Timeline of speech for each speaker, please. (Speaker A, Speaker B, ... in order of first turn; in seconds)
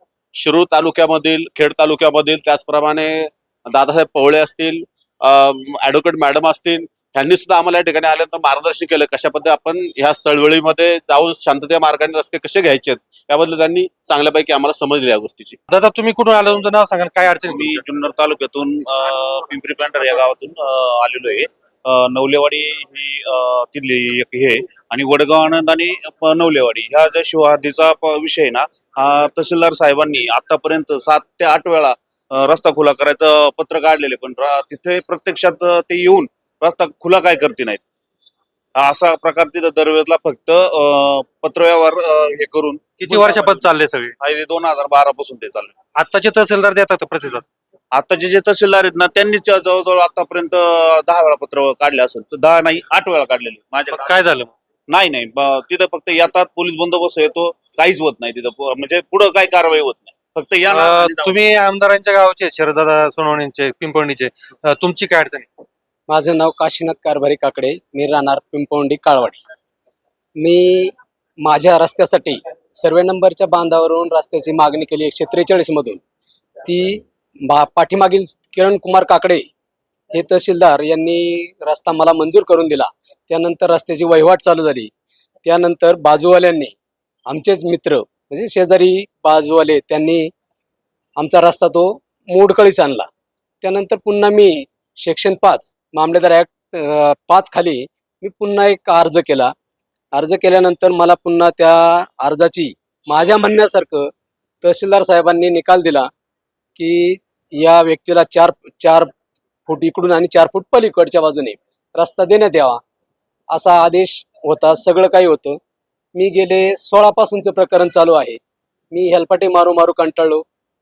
Speaker A: 0.4-15.6
Speaker B: 15.7-17.8, 43.0-44.1, 46.0-47.4, 53.9-54.5, 60.7-65.5
Speaker C: 17.5-37.8, 38.8-43.7, 44.2-45.7, 47.9-54.1, 54.9-61.3
Speaker D: 66.1-69.4, 70.4-76.0, 76.6-79.5, 80.1-84.9, 85.4-86.7, 87.3-90.3, 91.2-93.1, 93.6-99.5, 100.1-104.1, 104.6-106.1, 106.8-109.1, 109.7-112.8, 113.5-115.6, 116.1-118.4, 118.9-120.4